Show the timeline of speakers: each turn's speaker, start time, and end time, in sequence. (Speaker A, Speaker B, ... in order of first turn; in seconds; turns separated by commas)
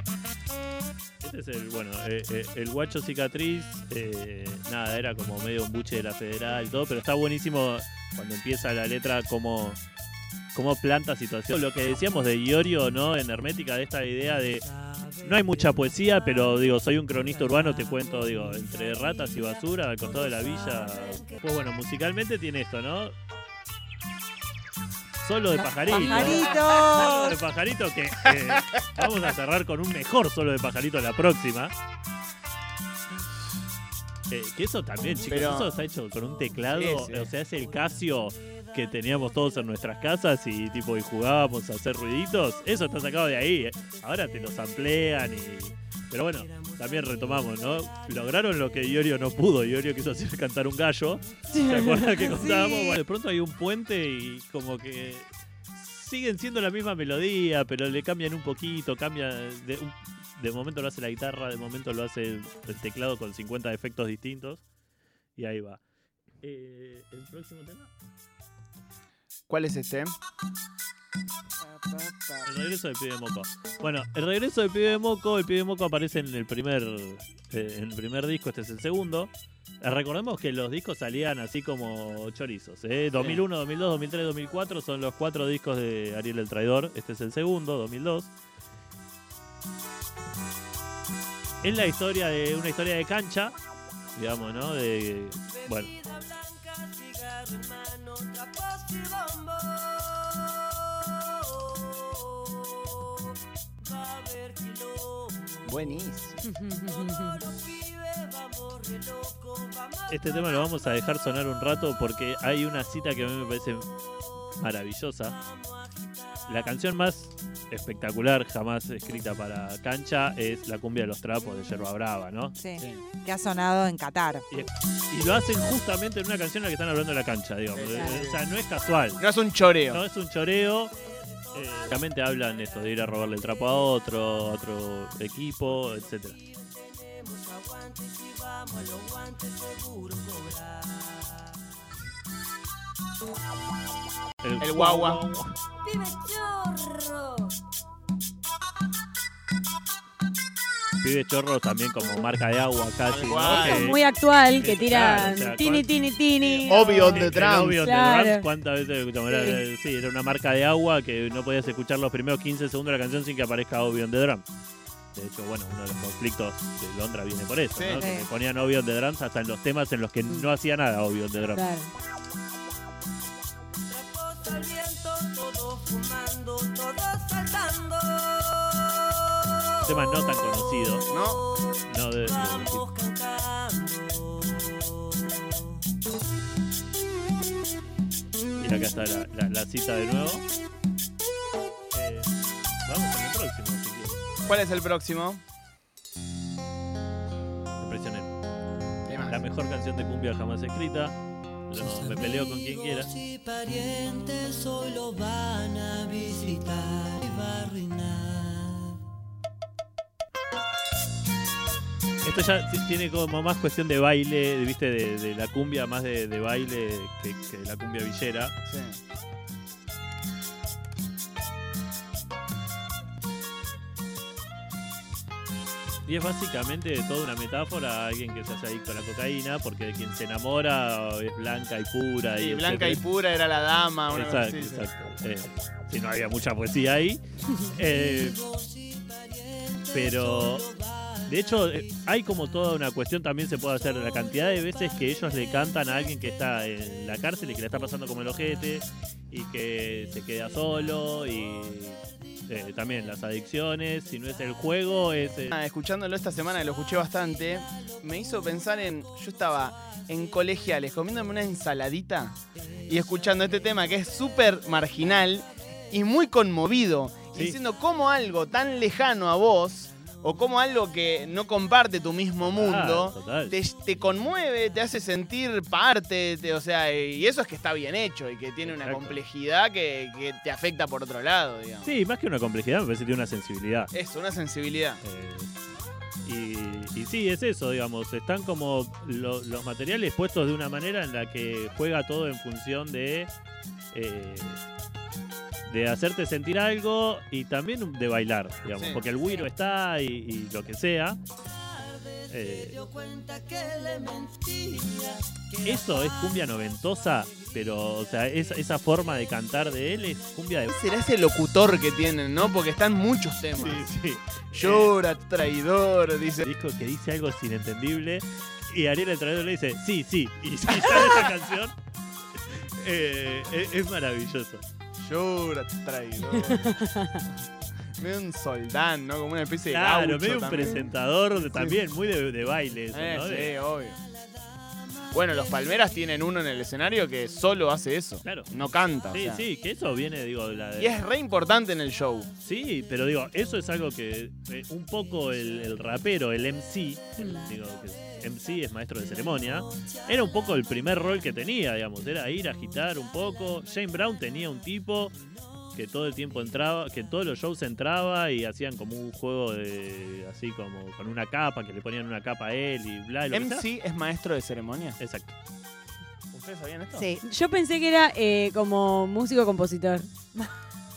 Speaker A: 1.2-9.8, Speaker A: 10.5-14.7, Speaker A: 15.2-23.1, Speaker A: 25.2-31.7, Speaker B: 25.6-27.4, Speaker A: 34.3-64.6, Speaker C: 35.3-35.7, Speaker C: 36.6-37.3, Speaker D: 51.5-52.2, Speaker B: 52.3-52.9, Speaker A: 65.4-65.8, Speaker A: 66.4-67.9, Speaker C: 69.5-70.1, Speaker B: 71.6-72.5, Speaker A: 72.5-88.3, Speaker C: 83.2-83.4, Speaker A: 91.6-93.6, Speaker A: 94.2-95.9, Speaker E: 95.9-103.1, Speaker E: 103.8-105.7, Speaker C: 105.6-106.4, Speaker D: 106.5-107.4, Speaker E: 106.8-110.1, Speaker A: 110.1-113.9, Speaker A: 114.6-115.4, Speaker A: 116.5-122.6, Speaker B: 122.6-124.5, Speaker C: 122.8-123.0, Speaker A: 124.5-129.2, Speaker C: 127.7-128.4, Speaker C: 129.2-130.0, Speaker A: 129.9-130.9, Speaker A: 131.5-136.4, Speaker E: 137.0-141.2, Speaker A: 144.4-145.6, Speaker C: 144.6-145.2, Speaker E: 145.8-147.6, Speaker A: 151.0-154.0, Speaker C: 153.1-154.0, Speaker D: 153.6-158.5, Speaker A: 154.6-155.9, Speaker C: 156.4-157.8, Speaker A: 157.0-164.4, Speaker D: 159.3-159.6, Speaker A: 165.1-171.7, Speaker C: 167.7-168.1, Speaker B: 167.9-168.3, Speaker D: 171.5-171.9, Speaker E: 173.9-179.6, Speaker A: 179.8-181.1, Speaker C: 181.1-181.4, Speaker A: 181.9-182.8, Speaker E: 182.4-184.9, Speaker A: 188.6-190.5, Speaker A: 191.9-194.2, Speaker C: 194.4-195.4, Speaker A: 197.8-198.4, Speaker C: 199.1-199.4, Speaker A: 199.3-201.2, Speaker A: 201.7-203.1, Speaker E: 201.8-209.0, Speaker A: 212.2-218.6, Speaker C: 218.7-219.0, Speaker A: 226.1-233.0, Speaker C: 232.4-234.8, Speaker A: 234.1-238.4, Speaker E: 238.2-240.7, Speaker A: 239.9-240.7, Speaker A: 241.3-255.6, Speaker C: 255.5-281.9, Speaker A: 272.5-273.5, Speaker A: 278.7-279.2, Speaker A: 281.8-283.9, Speaker C: 283.9-285.0, Speaker A: 285.0-285.5, Speaker A: 286.2-293.3, Speaker A: 293.9-294.6, Speaker A: 295.7-301.2, Speaker C: 298.8-299.0, Speaker E: 301.9-306.1, Speaker A: 302.3-302.8, Speaker A: 305.6-310.7, Speaker C: 310.7-314.0, Speaker A: 313.6-314.9, Speaker C: 314.5-316.5, Speaker A: 316.4-321.7, Speaker C: 320.7-321.3, Speaker A: 322.5-324.6, Speaker C: 325.0-326.9, Speaker D: 326.7-327.1, Speaker C: 328.0-331.8, Speaker A: 329.7-333.6, Speaker C: 332.9-334.0, Speaker C: 335.1-339.5, Speaker A: 338.2-341.0, Speaker C: 340.8-342.3, Speaker A: 342.4-355.2, Speaker A: 355.8-363.6, Speaker C: 363.3-365.0, Speaker A: 365.0-365.3, Speaker C: 366.3-367.1, Speaker B: 366.9-367.2, Speaker D: 367.2-370.1